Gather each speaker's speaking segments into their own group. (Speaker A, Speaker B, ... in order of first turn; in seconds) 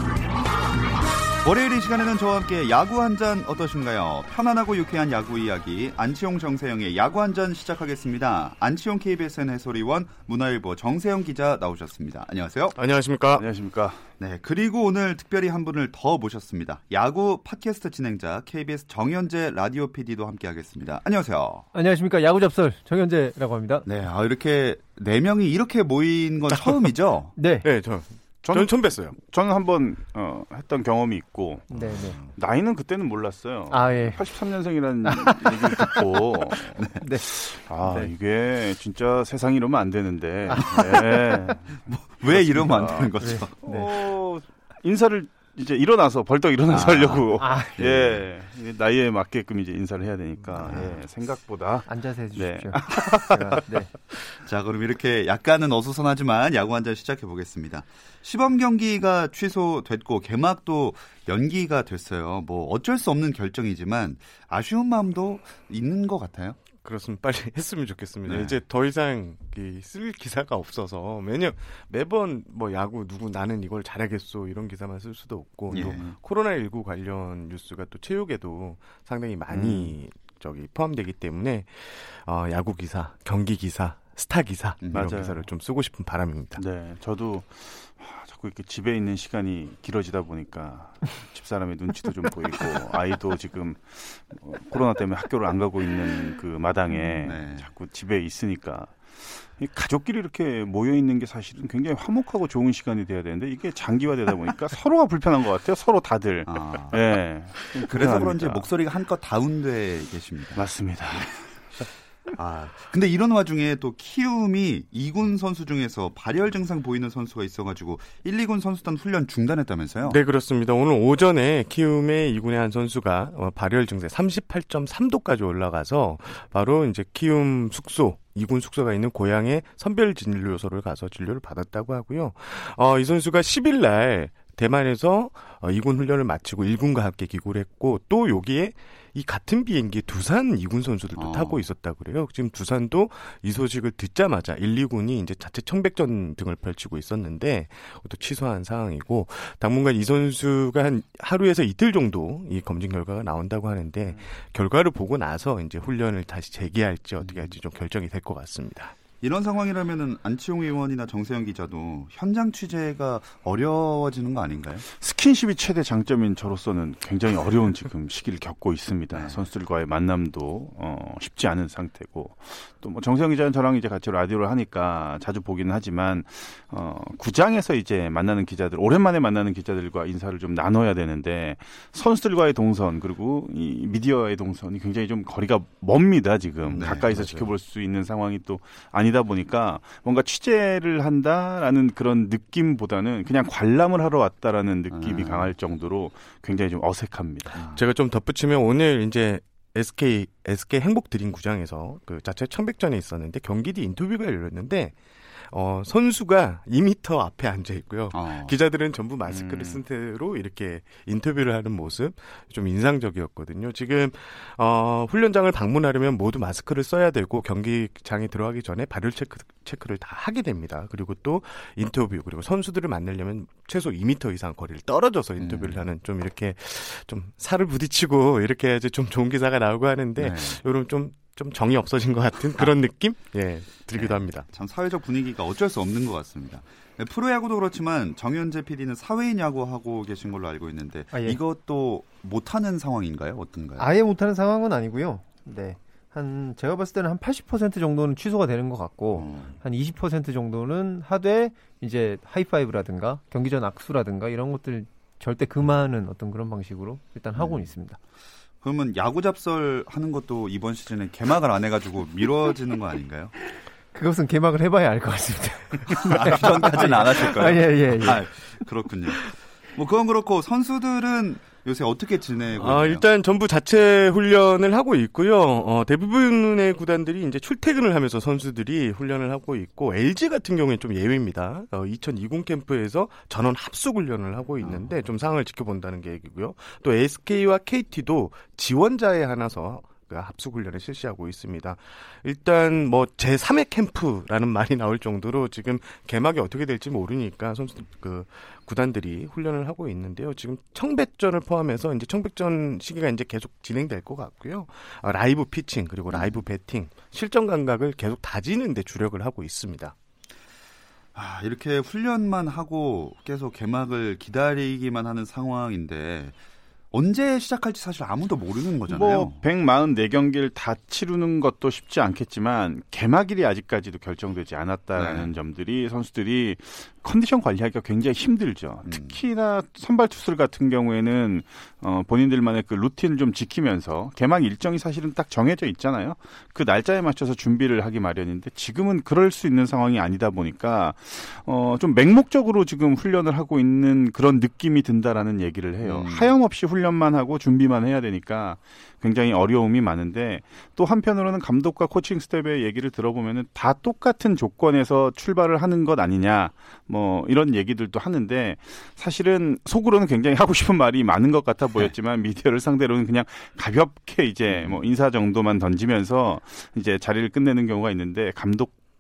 Speaker A: 1.4-12.8, 14.2-21.7, 23.9-27.3, 32.0-32.3, 40.6-41.2, 41.9-43.5, 46.7-48.2, 50.5-51.0, 54.3-66.6, 68.3-68.5, 75.7-76.2, 84.8-85.1, 97.2-97.7, 106.5-107.0, 107.8-110.6, 112.3-120.2, 141.2-141.6, 159.2-164.9, 169.1-169.4, 186.7-187.1, 194.9-195.5, 197.6-197.8, 208.1-208.6, 225.4-225.8, 230.2-230.6, 233.9-243.9, 249.2-249.5, 257.4-257.7, 258.6-263.3, 265.9-273.0, 284.6-284.9, 306.1-306.4, 311.1-316.4, 316.9-319.4, 324.9-325.3, 328.9-329.2, 345.8-346.3, 364.5-364.8
Speaker B: 12.7-13.4, 27.6-29.1, 66.8-86.6, 120.0-158.9, 186.9-187.5, 197.7-204.9, 205.5-234.5, 272.6-309.9
Speaker C: 13.4-14.0, 28.4-31.8, 32.3-53.6, 79.5-79.9, 84.9-85.5, 86.5-108.7, 110.5-111.5, 164.9-197.6, 209.3-209.8, 318.9-368.8
Speaker D: 21.7-23.9, 27.4-27.7, 31.7-32.2, 33.7-34.2, 35.0-36.0, 37.0-37.3, 37.9-38.1, 43.2-43.9, 47.4-47.8, 51.9-53.9, 241.1-241.4, 243.8-258.0, 263.9-268.3